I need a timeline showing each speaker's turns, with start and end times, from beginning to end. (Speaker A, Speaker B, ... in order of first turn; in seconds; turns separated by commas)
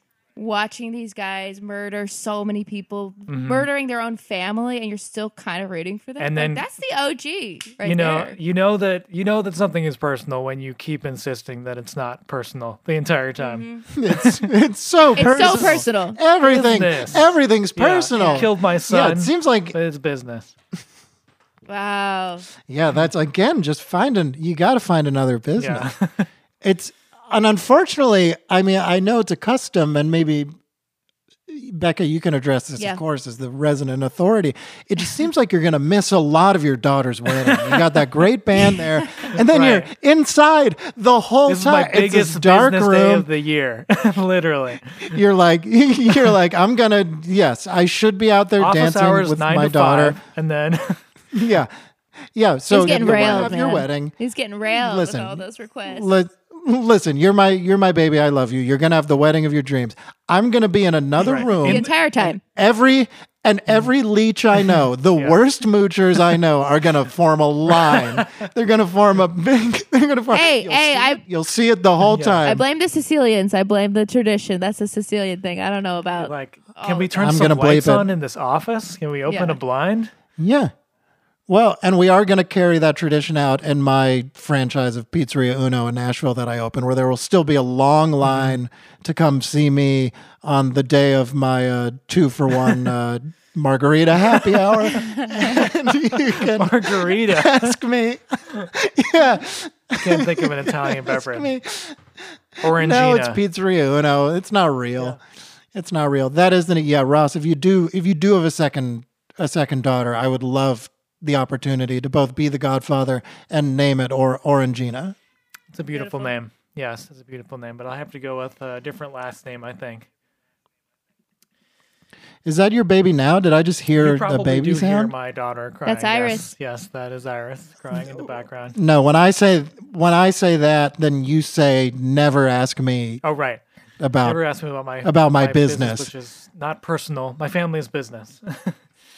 Speaker A: 0.3-8.3, Speaker B: 3.3-3.7, Speaker B: 6.2-6.6, Speaker B: 7.8-14.5, Speaker A: 13.4-13.8, Speaker C: 13.9-19.8, Speaker A: 15.2-16.2, Speaker B: 15.3-15.8, Speaker B: 16.4-20.5, Speaker A: 18.1-18.5, Speaker A: 21.7-22.4, Speaker C: 22.7-25.9, Speaker B: 25.6-26.3, Speaker C: 26.6-30.5, Speaker C: 31.5-43.3, Speaker B: 37.4-37.8, Speaker B: 39.2-39.9, Speaker B: 41.5-45.2, Speaker C: 45.0-50.2, Speaker B: 48.6-51.0, Speaker C: 51.3-51.7, Speaker C: 52.3-54.1, Speaker A: 52.7-56.1, Speaker B: 52.9-53.5, Speaker C: 54.7-72.6, Speaker B: 61.2-61.9, Speaker A: 61.6-62.4, Speaker B: 65.2-65.4, Speaker B: 67.7-68.5, Speaker A: 70.3-71.2, Speaker B: 72.0-72.5, Speaker A: 72.4-77.1, Speaker B: 76.2-80.1, Speaker C: 77.1-78.1, Speaker A: 79.3-79.6, Speaker C: 80.4-80.7, Speaker C: 81.5-102.0, Speaker B: 88.2-88.6, Speaker B: 94.3-97.8, Speaker B: 100.0-101.5, Speaker C: 102.6-105.2, Speaker B: 102.6-103.4, Speaker C: 105.7-115.2, Speaker B: 115.7-120.1, Speaker A: 115.9-116.4, Speaker C: 122.4-125.1, Speaker B: 124.0-128.8, Speaker A: 125.8-126.5, Speaker C: 128.7-133.2, Speaker B: 133.2-133.6, Speaker C: 134.0-134.4, Speaker B: 134.2-138.8, Speaker C: 135.0-136.1